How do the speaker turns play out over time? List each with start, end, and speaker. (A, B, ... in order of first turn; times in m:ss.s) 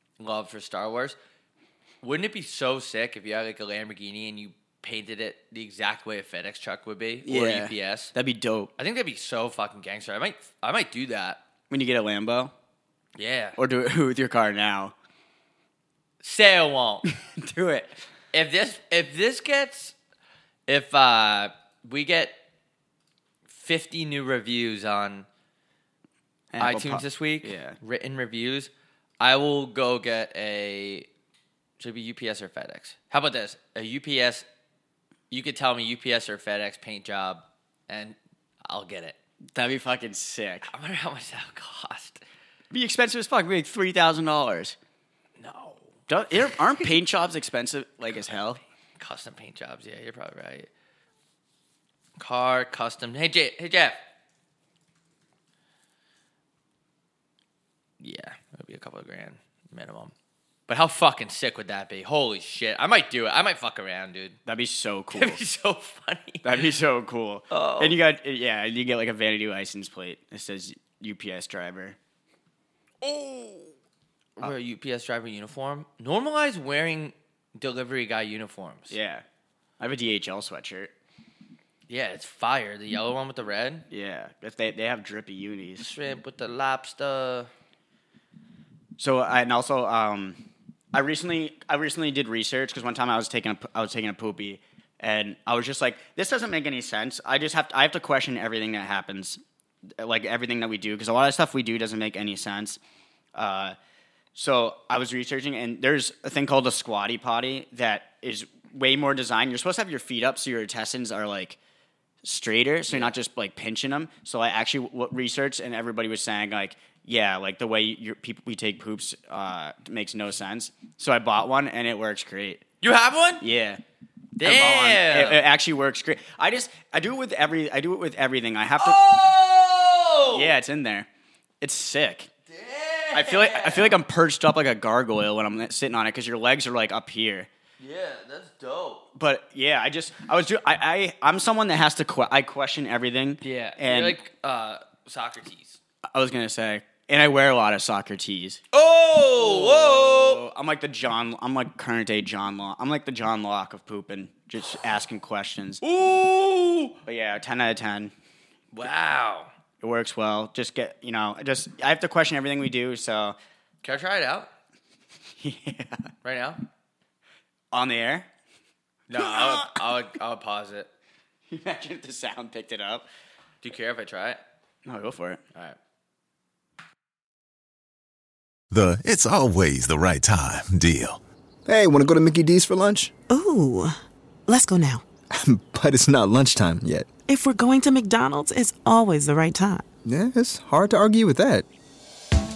0:00.2-0:01.2 A
0:02.0-0:08.1 A
0:07.2-0:08.7 B
0:08.8-0:11.4 A
0:11.7-0:12.5 B
0:13.2-0:13.6 A
0:13.6-0:15.0 B
0:16.2-0:17.1 A
0:17.3-0:18.0 B
0:18.3-0:20.0 A
0:20.7-0:22.4 A
0:23.5-0:25.3 A
0:26.5-0:27.8 B
0:26.6-0:31.1 A
0:31.8-0:34.5 A
0:35.3-0:39.2 A
0:39.5-0:40.7 B
0:40.6-0:42.2 A
0:42.7-0:44.8 B
0:45.4-0:45.9 A
0:46.1-0:48.6 B
0:46.6-0:46.9 A
0:49.0-0:50.7 A
0:52.2-0:54.0 A
0:58.0-1:00.1 A
1:00.7-1:04.4 A
1:04.5-1:05.4 B
1:05.1-1:06.7 A
1:06.4-1:12.0 B
1:07.5-1:08.0 A
1:13.0-1:13.7 A
1:14.4-1:19.0 A
1:18.9-1:19.2 B
1:19.8-1:20.9 B
1:21.9-1:23.9 A
1:23.9-1:25.9 B
1:25.8-1:27.5 A
1:29.0-1:30.4 B
1:30.9-1:39.4 B
1:40.0-1:42.8 B
1:43.3-1:43.8 B
1:44.4-1:51.6 B
1:52.2-2:02.6 B
1:52.9-1:53.1 A
2:02.8-2:03.4 A
2:03.4-2:03.8 B
2:04.4-2:09.0 B
2:04.4-2:05.4 A
2:08.8-2:10.6 A
2:10.2-2:11.1 B
2:11.6-2:12.3 B
2:12.5-2:14.0 A
2:13.1-2:17.5 B
2:17.8-2:19.1 A
2:19.2-2:24.2 B
2:23.4-2:25.8 A
2:26.1-2:28.6 B
2:28.7-2:30.4 A
2:29.4-2:35.8 B
2:35.8-2:37.0 A
2:37.0-2:38.1 B
2:38.7-2:39.5 A
2:39.8-2:43.4 B
2:43.8-2:44.5 A
2:45.4-2:46.1 B
2:46.2-2:46.6 A
2:47.7-2:48.3 B
2:49.1-2:50.9 A
2:49.2-2:49.8 B
2:51.5-2:53.1 B
2:53.6-2:54.4 A
2:54.8-2:55.4 B
2:58.7-3:01.2 C
3:01.7-3:03.2 D
3:03.3-3:05.1 E
3:05.3-3:07.1 D
3:07.3-3:09.9 E
3:10.0-3:11.7 D